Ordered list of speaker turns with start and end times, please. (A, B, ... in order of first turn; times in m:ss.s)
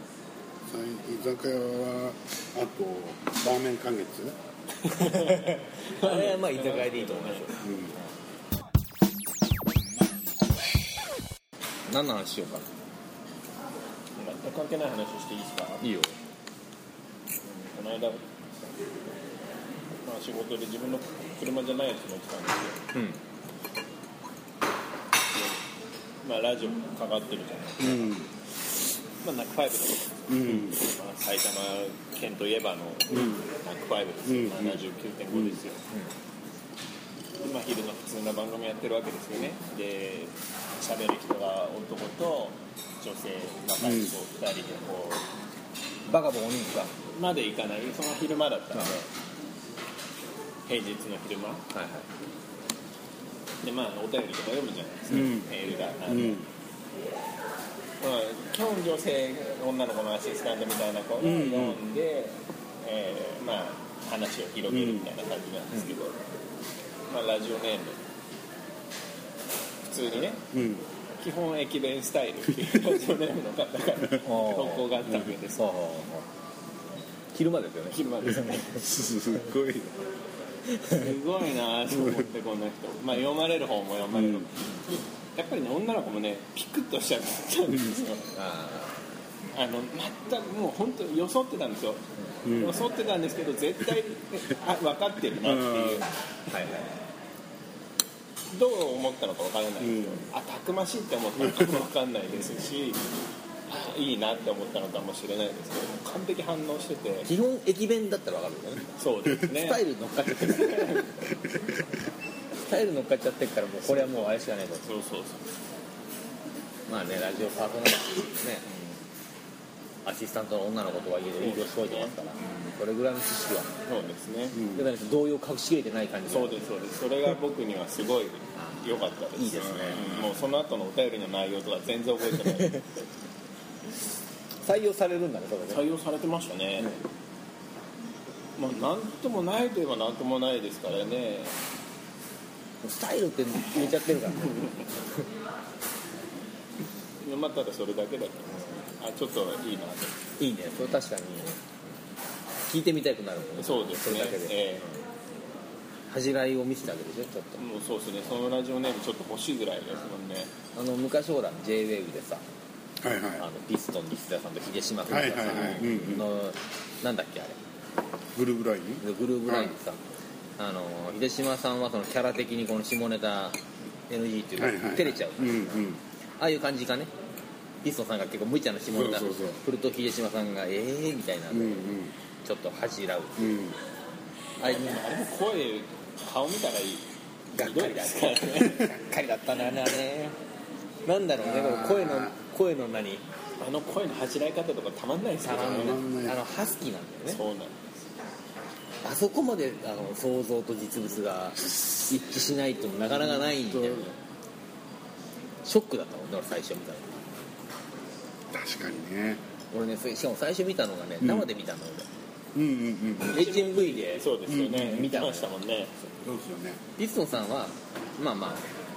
0:00.6-0:04.4 A
0:04.8-0:07.5 B
0:05.1-0:07.7 C
0:07.6-0:07.9 A
0:11.9-0:12.7 C
0:14.2-0:15.9 B
0:15.8-0:16.1 C
0:17.4-0:18.2 B
0:20.0-0:22.8 B
0:22.9-0:23.2 C
0:25.3-0:25.6 B
0:26.2-0:28.1 B
0:27.8-0:28.3 A
0:29.2-0:35.8 B
0:30.3-0:30.8 A
0:33.1-0:33.4 A
0:34.2-0:34.8 A
0:35.3-0:35.6 A
0:37.4-0:45.2 B
0:43.8-0:44.1 A
0:46.1-0:46.9 C
0:47.1-0:49.1 B
0:50.6-0:51.7 B
0:51.7-0:52.0 C
0:53.6-0:56.4 B
0:55.1-0:55.5 A
0:56.0-0:56.4 A
0:58.0-1:06.2 B
1:01.2-1:01.8 A
1:04.7-1:05.1 A
1:07.1-1:08.0 B
1:09.9-1:10.4 B
1:10.5-1:10.8 A
1:11.2-1:15.6 B
1:14.2-1:16.2 C
1:17.3-1:18.0 C
1:17.9-1:18.8 B
1:18.3-1:20.0 A
1:20.7-1:21.0 C
1:20.9-1:24.7 B
1:24.1-1:24.5 A
1:25.3-1:28.3 B
1:28.3-1:29.0 C
1:29.5-1:36.1 B
1:32.4-1:32.8 A
1:35.4-1:36.0 A
1:36.5-1:36.9 C
1:38.5-1:43.1 B
1:39.8-1:40.2 A
1:43.7-1:47.3 B
1:47.3-1:51.2 C
1:49.0-1:51.2 B
1:51.4-1:51.8 A
1:52.6-1:54.8 C
1:53.8-1:55.4 B
1:56.9-1:58.6 C
1:58.6-1:59.0 B
2:00.0-2:03.7 C
2:01.4-2:02.7 B
2:03.9-2:04.6 B
2:04.5-2:04.9 A
2:04.7-2:06.6 C
2:06.3-2:12.8 B
2:08.6-2:10.2 C
2:09.7-2:10.3 A
2:14.6-2:15.8 C
2:15.7-2:16.9 B
2:18.6-2:21.6 B
2:22.8-2:24.6 C
2:24.4-2:24.8 B
2:27.2-2:30.2 B
2:30.4-2:31.6 C
2:32.7-2:35.0 C
2:33.6-2:34.9 B
2:36.1-2:37.6 C
2:37.6-2:40.5 B
2:40.7-2:42.4 C
2:43.0-2:43.5 A
2:43.4-2:47.6 C
2:45.0-2:46.3 A
2:48.3-2:49.8 A
2:49.0-2:50.0 C
2:50.6-2:53.6 C
2:54.1-2:55.8 C
2:54.6-2:56.0 A
2:56.4-2:57.1 C
2:57.8-3:01.9 C
2:58.9-2:59.6 A
3:01.5-3:02.1 A
3:02.4-3:03.4 C
3:03.4-3:03.8 A
3:04.6-3:07.0 B
3:04.6-3:05.0 C
3:07.5-3:10.4 C
3:07.6-3:09.0 B
3:11.0-3:13.2 C
3:11.4-3:12.3 A
3:13.6-3:16.0 B
3:15.4-3:17.4 C
3:15.5-3:16.4 A
3:17.3-3:17.9 B
3:19.0-3:24.1 C
3:23.1-3:24.1 A
3:25.6-3:27.2 C
3:28.5-3:29.4 A
3:29.7-3:32.1 C
3:31.2-3:31.5 A
3:32.5-3:33.4 A
3:33.2-3:35.5 C
3:33.3-3:35.9 B
3:34.5-3:35.1 A
3:36.2-3:36.8 A
3:37.0-3:38.6 C